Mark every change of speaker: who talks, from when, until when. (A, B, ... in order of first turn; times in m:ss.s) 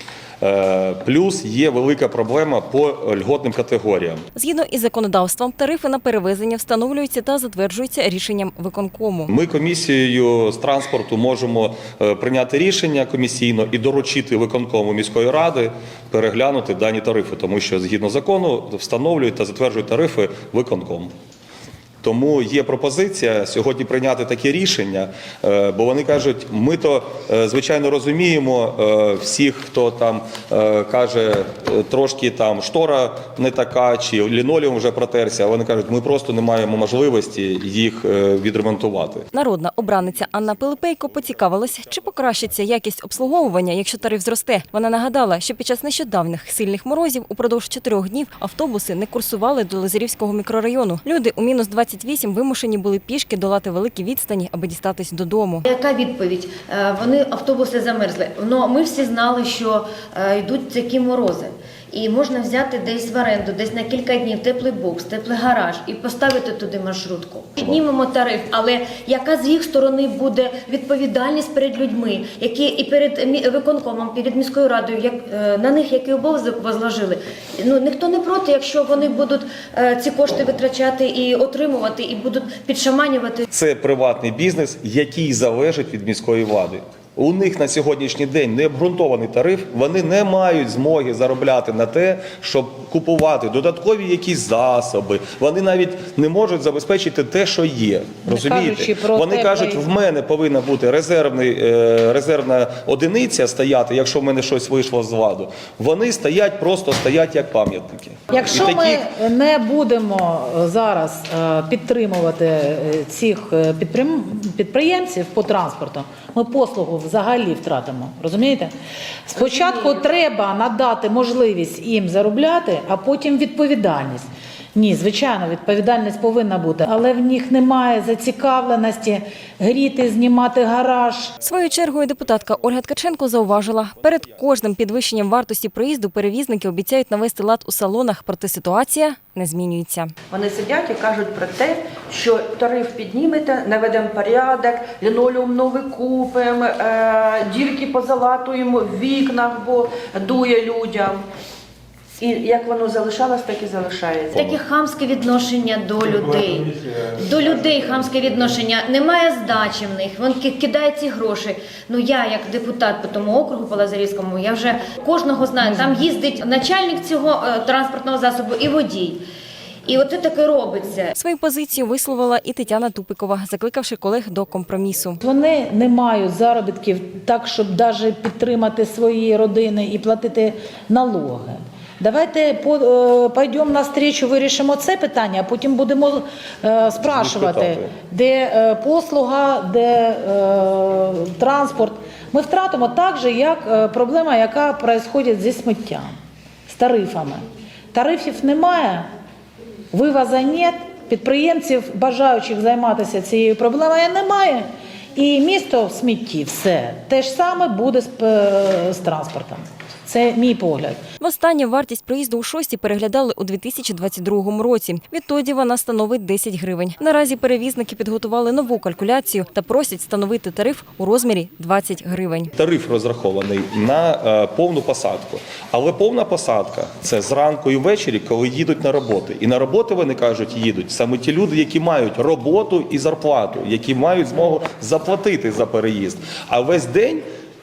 0:00.4-0:04.2 A
0:04.4-0:09.3 B
0:09.3-0:21.1 A
0:22.0-0:39.3 A
0:39.3-0:55.7 B
0:55.7-1:23.4 C
1:23.5-1:49.0 A
1:38.3-1:39.8 D
1:48.3-1:58.7 D
1:59.3-2:11.3 D
2:11.4-2:20.1 B
2:20.3-2:31.2 E
2:32.2-2:34.5 E
2:34.3-2:49.2 C
2:49.9-2:51.1 C
2:51.2-2:55.2 B
2:55.2-3:16.1 D
3:07.0-3:07.9 A
3:16.7-3:19.1 D
3:19.9-3:24.6 D
3:25.2-3:31.0 D
3:31.2-3:42.5 B
3:42.6-3:57.2 A